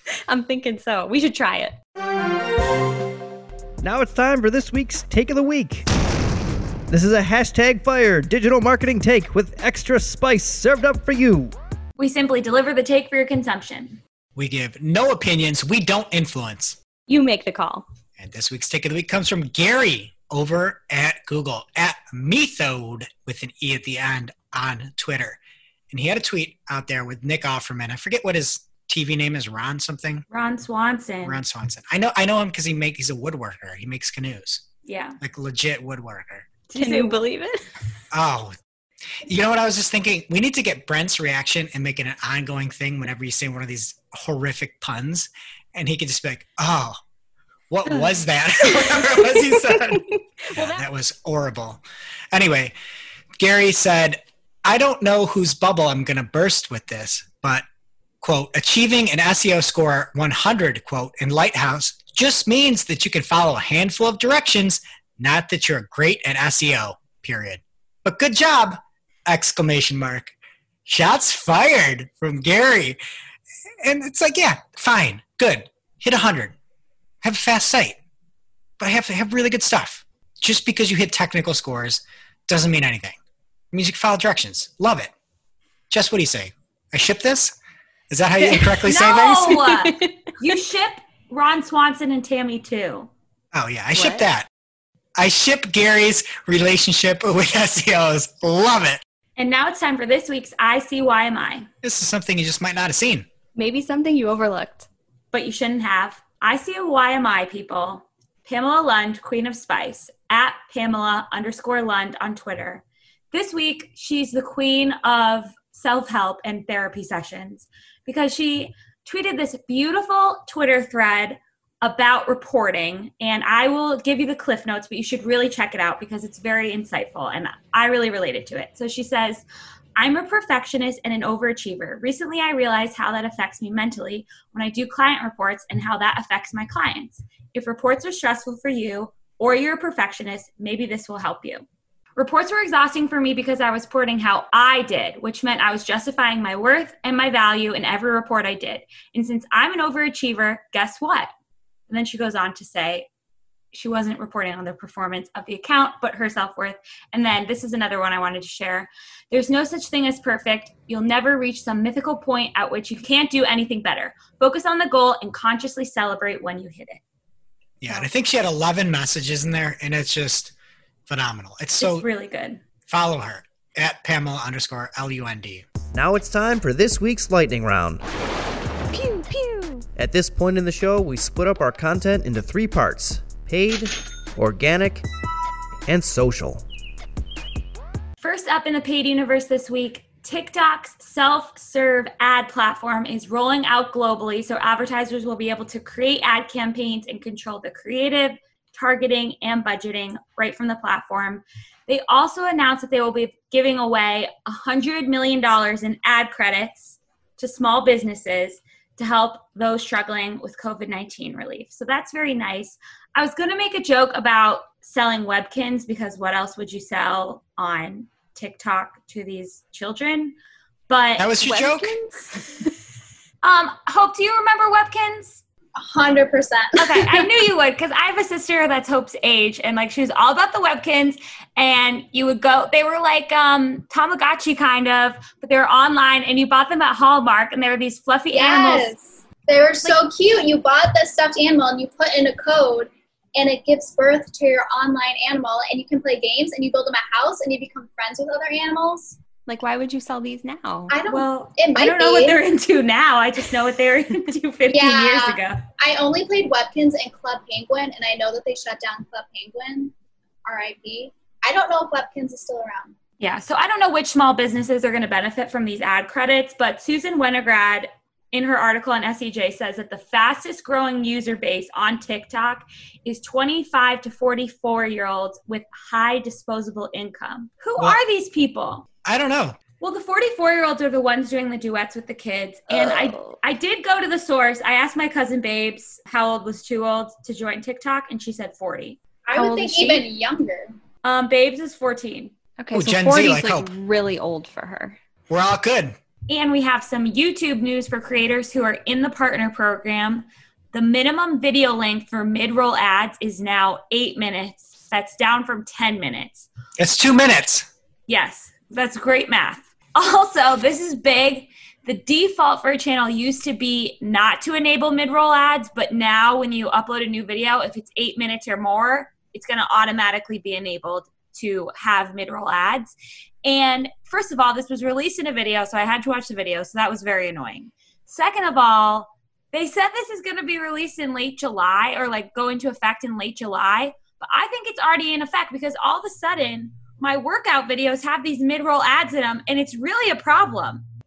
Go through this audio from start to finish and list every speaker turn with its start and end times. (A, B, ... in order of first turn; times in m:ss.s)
0:00.3-0:01.8 A
0:03.8-0:05.8 B
0:06.9-0:11.5 B
0:12.0-0:14.0 C
0:14.4-0:16.8 D
0:17.1-0:17.8 A
0:18.2-0:25.4 D
0:25.9-0:30.2 D
0:30.3-0:31.4 C
0:31.2-0:34.6 D
0:34.8-0:35.2 C
0:35.2-0:36.5 D
0:36.7-0:37.2 C
0:36.8-0:37.6 A
0:38.1-0:38.6 D
0:39.3-0:47.0 D
0:47.7-0:52.7 D
0:48.7-0:50.8 A
0:53.4-0:57.6 D
0:58.2-1:10.3 D
1:10.8-1:13.0 D
1:13.8-1:16.5 D
1:17.2-1:18.0 D
1:18.8-1:23.2 D
1:23.7-1:25.1 D
1:25.9-1:27.5 D
1:28.1-1:29.6 D
1:28.8-1:33.1 C
1:29.5-1:30.1 A
1:33.5-1:34.5 D
1:33.9-1:34.2 A
1:35.2-1:39.0 D
1:39.4-1:41.7 C
1:41.8-1:43.3 D
1:43.6-1:44.9 A
1:45.3-2:09.4 C
2:10.0-2:21.6 C
2:22.2-2:31.3 C
2:31.9-2:33.1 C
2:33.7-2:47.0 C
2:47.8-2:50.5 D
2:51.1-2:52.0 D
2:51.8-2:52.6 C
2:52.9-2:55.7 D
2:55.9-2:58.0 B
2:58.9-2:59.8 A
3:00.0-3:05.0 B
3:05.8-3:06.6 B
3:08.2-3:40.3 C
3:40.9-3:41.3 C
3:41.2-3:42.0 D
3:41.4-3:42.4 A
3:43.4-3:45.4 C
3:45.8-3:47.4 E
3:46.8-3:58.9 C
3:58.3-4:09.2 E
4:09.5-4:11.0 A
4:10.9-4:12.4 E
4:11.1-4:15.6 C
4:14.7-4:19.9 E
4:20.4-4:23.0 E
4:23.2-4:38.8 C
4:39.0-4:39.6 D
4:39.8-4:49.0 C
4:42.7-4:43.3 A
4:49.3-4:50.7 E
4:49.3-4:50.0 A
4:51.0-4:52.3 C
4:52.6-4:55.0 A
4:52.7-4:53.7 D
4:55.3-4:56.0 D
4:56.3-5:06.5 C
5:06.8-5:07.7 D
5:08.1-5:22.9 C
5:23.4-5:40.8 C